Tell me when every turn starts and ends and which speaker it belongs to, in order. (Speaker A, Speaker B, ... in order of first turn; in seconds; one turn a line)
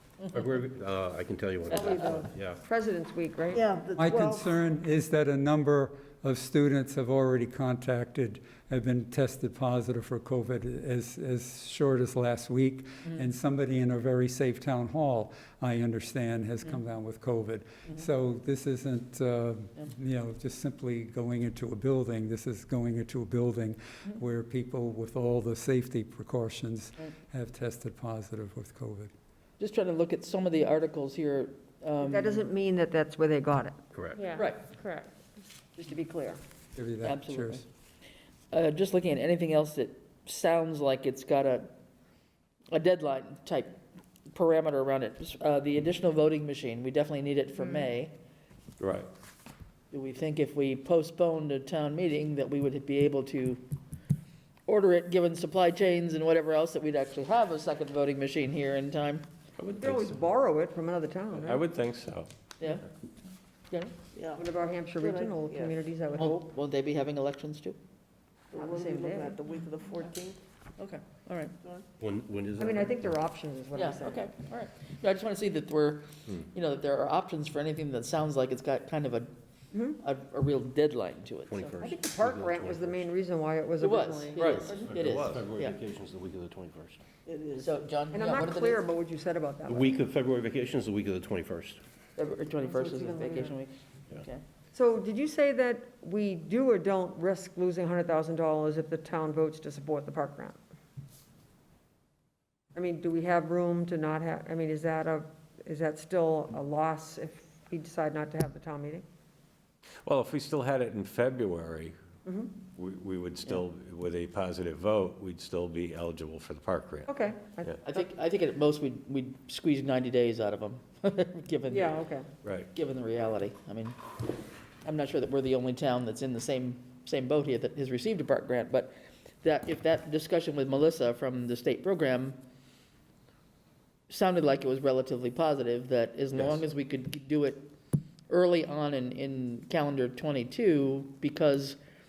Speaker A: 0.3-2.6
Speaker B: 1.7-4.2
Speaker C: 3.5-4.4
Speaker D: 3.9-29.1
Speaker E: 29.6-32.4
Speaker B: 32.0-35.2
Speaker A: 33.9-34.2
Speaker E: 34.3-34.6
Speaker B: 35.8-36.4
Speaker D: 36.8-37.6
Speaker E: 37.0-37.6
Speaker E: 38.5-41.7
Speaker E: 42.7-43.8
Speaker E: 44.3-48.1
Speaker F: 48.8-49.1
Speaker E: 49.9-53.6
Speaker E: 54.7-59.2
Speaker F: 59.6-60.2
Speaker B: 59.8-61.6
Speaker F: 61.3-62.3
Speaker E: 62.6-62.8
Speaker E: 63.7-64.0
Speaker C: 64.2-64.5
Speaker B: 64.3-66.3
Speaker C: 65.0-65.7
Speaker E: 66.1-67.8
Speaker C: 68.5-70.4
Speaker B: 68.5-69.4
Speaker E: 70.8-71.5
Speaker A: 72.0-73.1
Speaker B: 72.6-74.3
Speaker E: 73.7-79.3
Speaker B: 79.7-80.0
Speaker E: 80.0-81.7
Speaker A: 81.5-83.1
Speaker B: 81.8-84.8
Speaker E: 83.8-85.7
Speaker A: 84.7-87.0
Speaker F: 85.0-85.4
Speaker C: 87.2-87.7
Speaker E: 87.6-88.8
Speaker B: 88.1-90.0
Speaker A: 89.7-91.8
Speaker E: 92.2-94.4
Speaker B: 92.6-93.5
Speaker B: 94.7-100.6
Speaker B: 102.7-109.0
Speaker F: 110.0-112.0
Speaker B: 112.2-112.5
Speaker F: 112.7-117.1
Speaker B: 117.1-118.0
Speaker E: 117.8-122.0
Speaker B: 121.7-122.3
Speaker F: 122.4-122.7
Speaker E: 122.7-124.0
Speaker E: 124.8-132.4
Speaker E: 134.1-137.7
Speaker E: 138.3-141.8